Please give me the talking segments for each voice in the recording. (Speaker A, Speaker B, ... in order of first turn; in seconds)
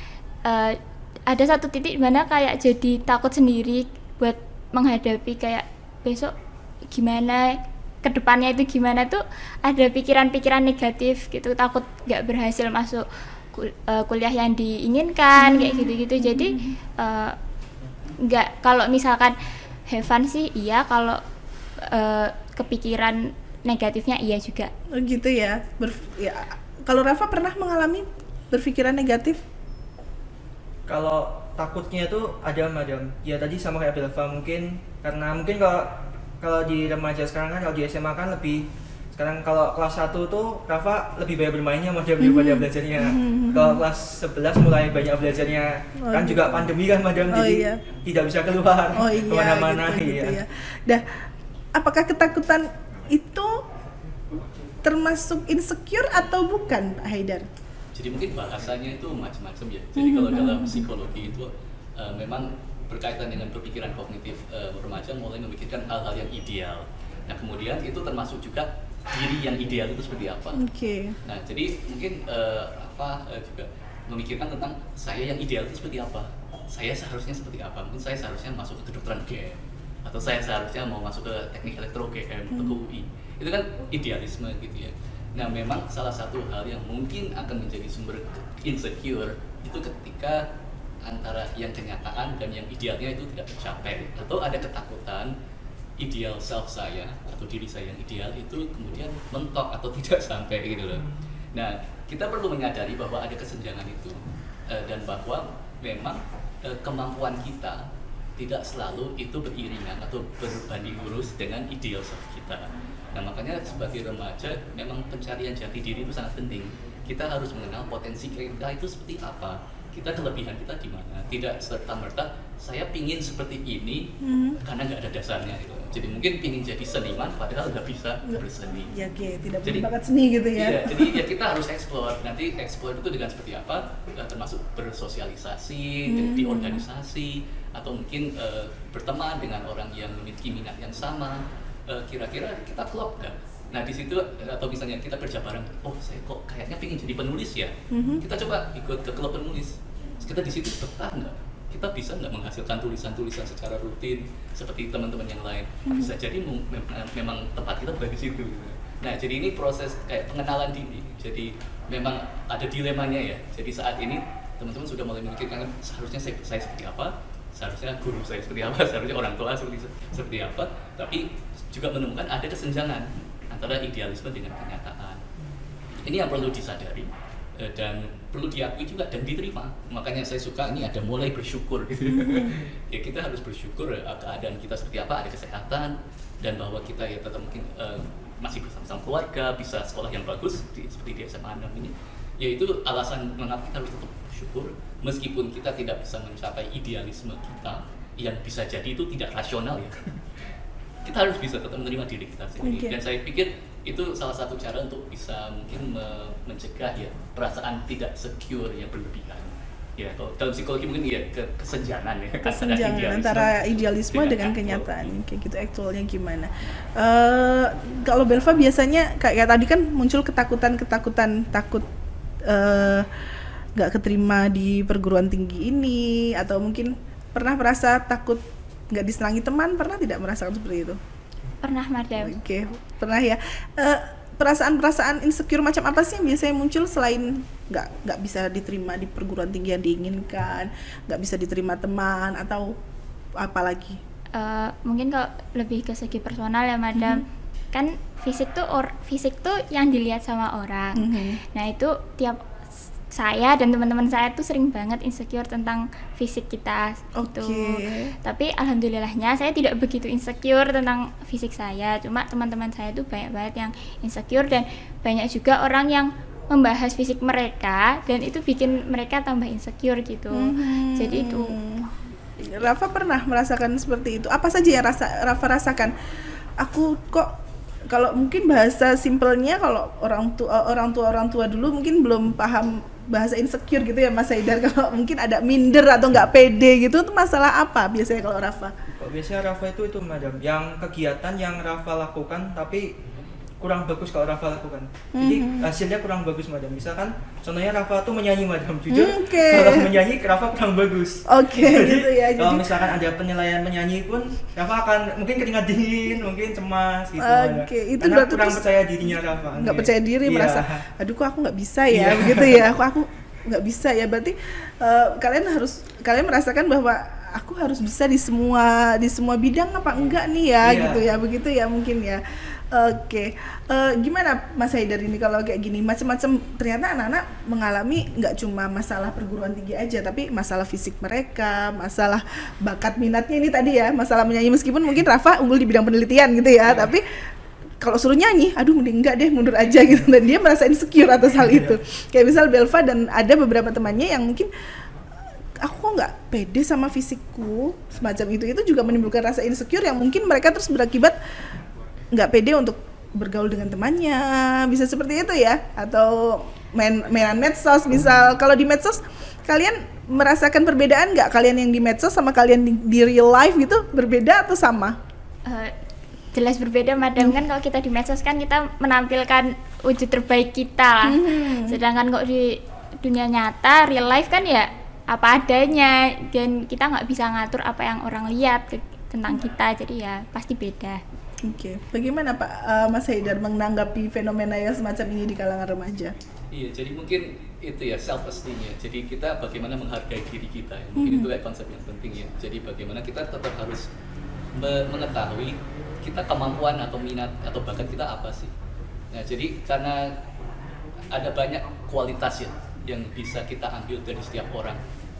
Speaker A: 0.4-6.3, 6.9-17.4, 18.2-19.4, 19.9-21.2, 21.8-24.7, 231.6-232.3, 244.3-252.4, 253.1-271.5, 365.4-365.7, 366.3-381.0
Speaker B: 15.4-16.7, 24.9-29.4, 42.2-43.8, 46.0-46.7, 47.3-47.8, 48.9-51.0, 51.7-53.6, 54.8-57.5, 60.0-60.9, 70.5-71.2, 82.5-82.8, 124.2-124.6, 128.3-131.2, 136.1-136.8, 147.9-148.2, 155.9-156.1, 182.1-182.5, 202.6-203.0, 212.4-221.8, 222.4-223.1, 223.8-231.0, 232.2-242.7, 243.4-244.0, 246.9-247.2, 250.9-251.4, 257.1-258.1, 270.3-275.9, 276.6-277.3, 277.9-288.7, 295.1-295.7, 298.9-300.0, 301.3-302.8, 307.2-308.6, 309.6-337.0, 337.8-344.5, 345.6-351.2, 352.1-365.0, 371.0-371.8, 381.4-386.1, 390.9-391.3
Speaker C: 30.9-50.4, 289.0-293.0, 293.6-310.9, 311.9-312.7, 320.6-321.0, 341.4-341.8
Speaker D: 57.9-70.6, 71.2-90.4, 91.0-95.3, 96.0-128.9, 129.6-129.9, 130.5-175.2, 176.0-200.2, 201.0-215.1, 386.5-393.9, 394.5-398.5, 399.1-400.1, 401.1-404.8